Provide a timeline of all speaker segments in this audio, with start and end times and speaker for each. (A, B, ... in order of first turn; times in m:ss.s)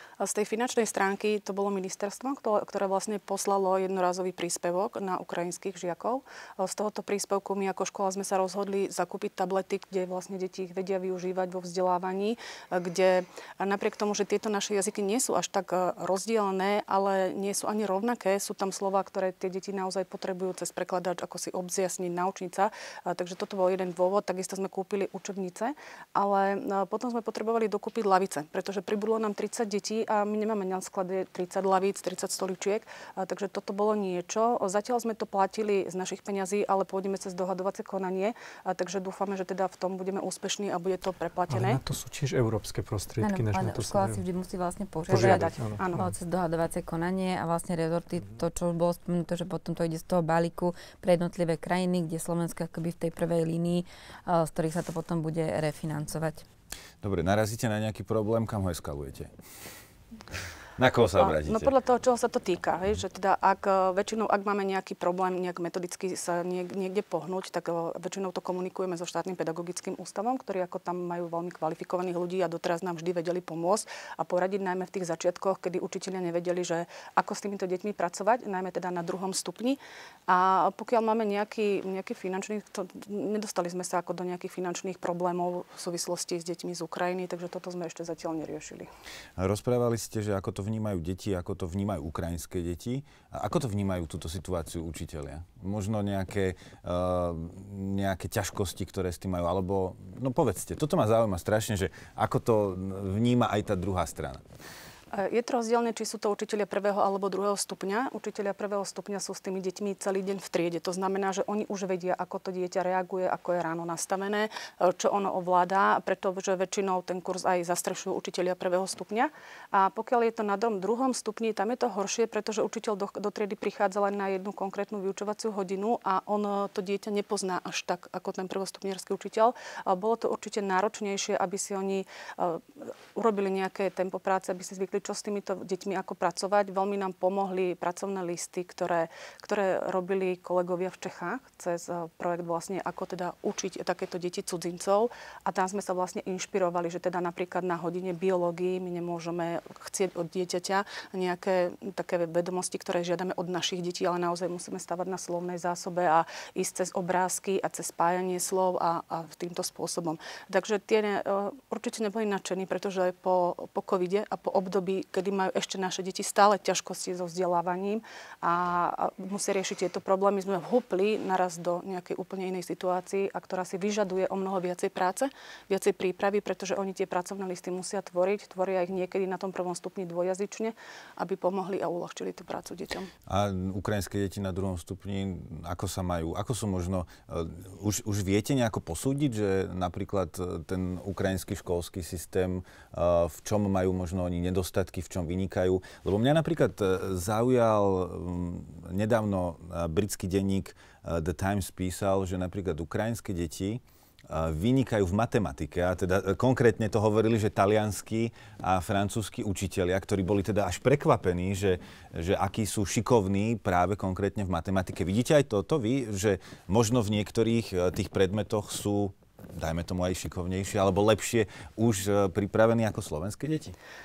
0:00.2-0:41.8 A
0:41.5-0:44.2 B
0:43.2-0:56.4 C
0:45.1-0:46.1 B
0:45.1-0:46.0 A
0:57.0-0:59.3 D
1:00.8-1:01.7 D
1:01.2-1:28.9 A
1:29.4-1:44.4 D
1:45.1-3:03.1 A
3:03.3-3:43.8 D